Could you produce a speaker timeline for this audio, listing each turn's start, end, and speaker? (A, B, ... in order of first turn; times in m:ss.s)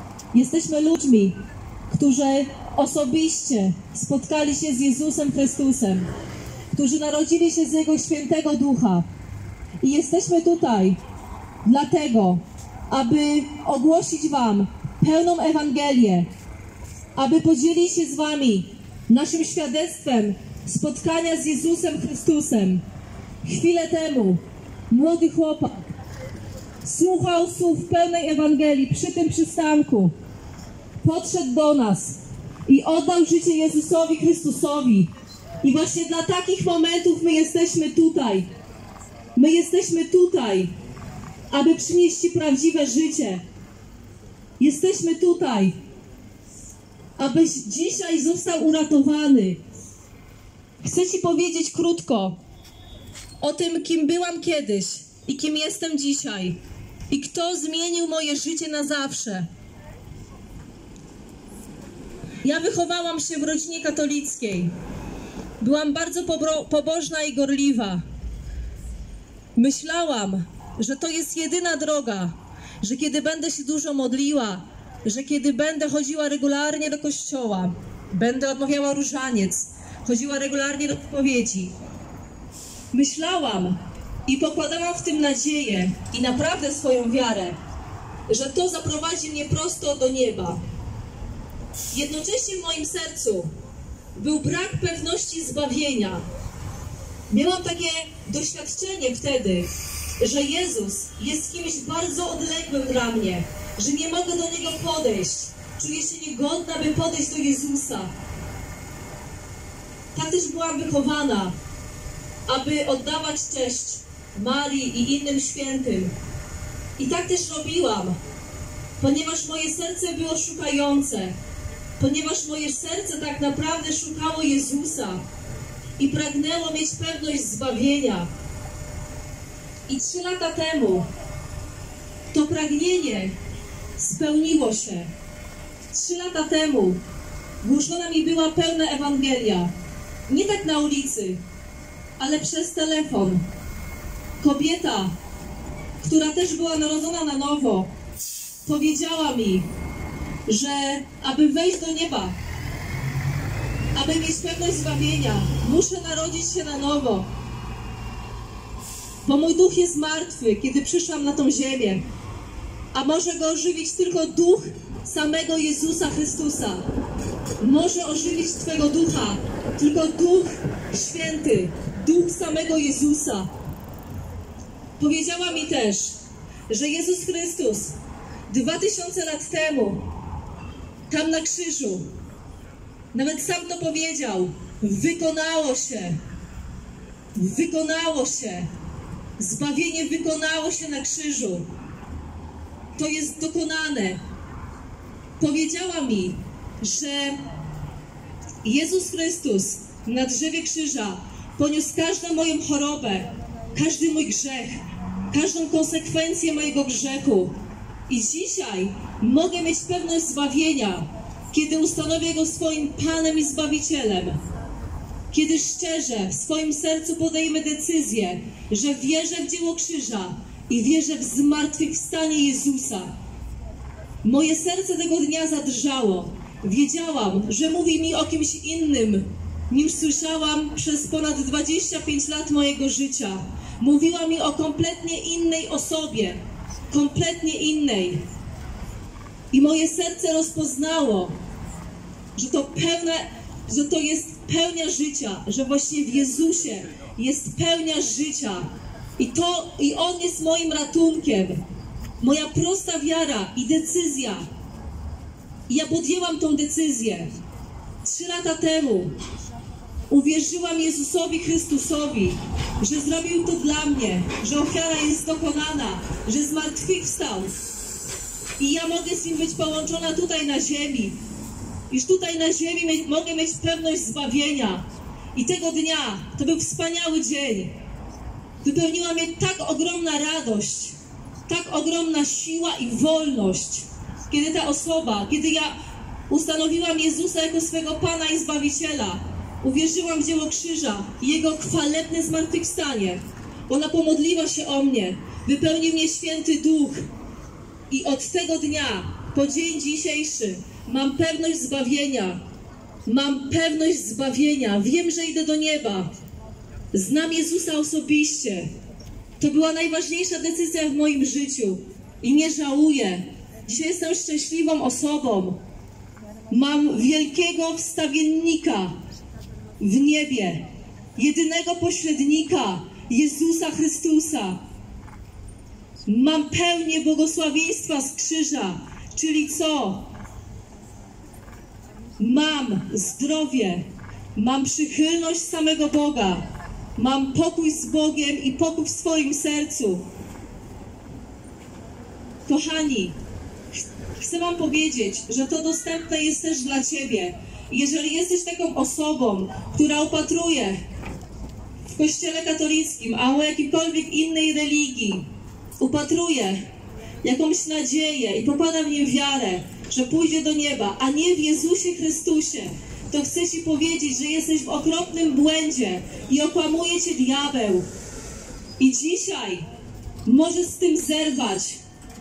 0:00.3-0:01.4 A
0:01.9-0:06.1 A
0:06.7-0:09.1 A
0:09.8-0:11.0 A
0:11.6-0:16.3 A
0:17.2-0:22.8 A
0:23.4-0:25.9 A
0:26.8-0:30.1 A
0:31.0-0:35.1 A
0:35.6-0:38.5 A
0:39.4-0:40.7 A
0:41.5-0:43.4 A
0:44.6-0:45.8 A
0:47.2-0:49.6 A
0:50.8-0:52.4 A
0:53.4-0:59.5 A
1:02.4-1:04.8 A
1:05.6-1:08.0 A
1:09.6-1:21.7 A
1:22.9-1:27.6 A
1:28.3-1:30.6 A
1:31.9-1:33.5 A
1:34.2-1:36.3 A
1:37.3-1:48.1 A
1:50.1-1:51.6 A
1:52.5-1:56.1 A
1:57.0-1:58.2 A
1:59.0-2:01.4 A
2:02.0-2:05.2 A
2:06.0-2:08.3 A
2:09.9-2:11.1 A
2:12.3-2:13.4 A
2:14.0-2:15.1 A
2:15.9-2:17.0 A
2:17.6-2:19.7 A
2:20.3-2:21.4 A
2:22.2-2:23.5 A
2:24.4-2:25.2 A
2:26.0-2:27.9 A
2:28.6-2:29.7 A
2:30.5-2:32.4 A
2:33.9-2:37.3 A
2:39.2-2:42.0 A
2:42.9-2:46.8 A
2:47.6-2:53.5 A
2:55.0-2:56.2 A
2:56.7-2:58.0 A
2:58.5-3:00.0 A
3:01.1-3:02.1 A
3:03.1-3:06.2 A
3:07.4-3:08.7 A
3:09.4-3:11.7 A
3:13.0-3:14.2 A
3:15.4-3:17.4 A
3:18.6-3:34.4 A
3:35.3-3:43.1 A
3:44.2-3:58.3 A
3:59.5-4:01.4 A
4:02.4-4:11.6 A
4:12.2-4:14.5 A
4:15.7-4:17.4 A
4:18.0-4:19.2 A
4:20.1-4:27.5 A
4:28.6-4:31.2 A
4:31.9-4:37.8 A
4:38.6-4:45.8 A
4:46.3-4:57.1 A
4:57.9-5:02.4 A
5:03.1-5:06.1 A
5:06.9-5:08.7 A
5:09.4-5:15.6 A
5:16.5-5:19.0 A
5:19.8-5:24.6 A
5:26.1-5:30.1 A
5:32.2-5:36.5 A
5:37.0-5:40.1 A
5:42.5-5:43.2 A
5:44.2-5:50.8 A
5:51.9-5:56.7 A
5:57.2-6:07.9 A
6:08.8-6:09.6 A
6:10.2-6:11.8 A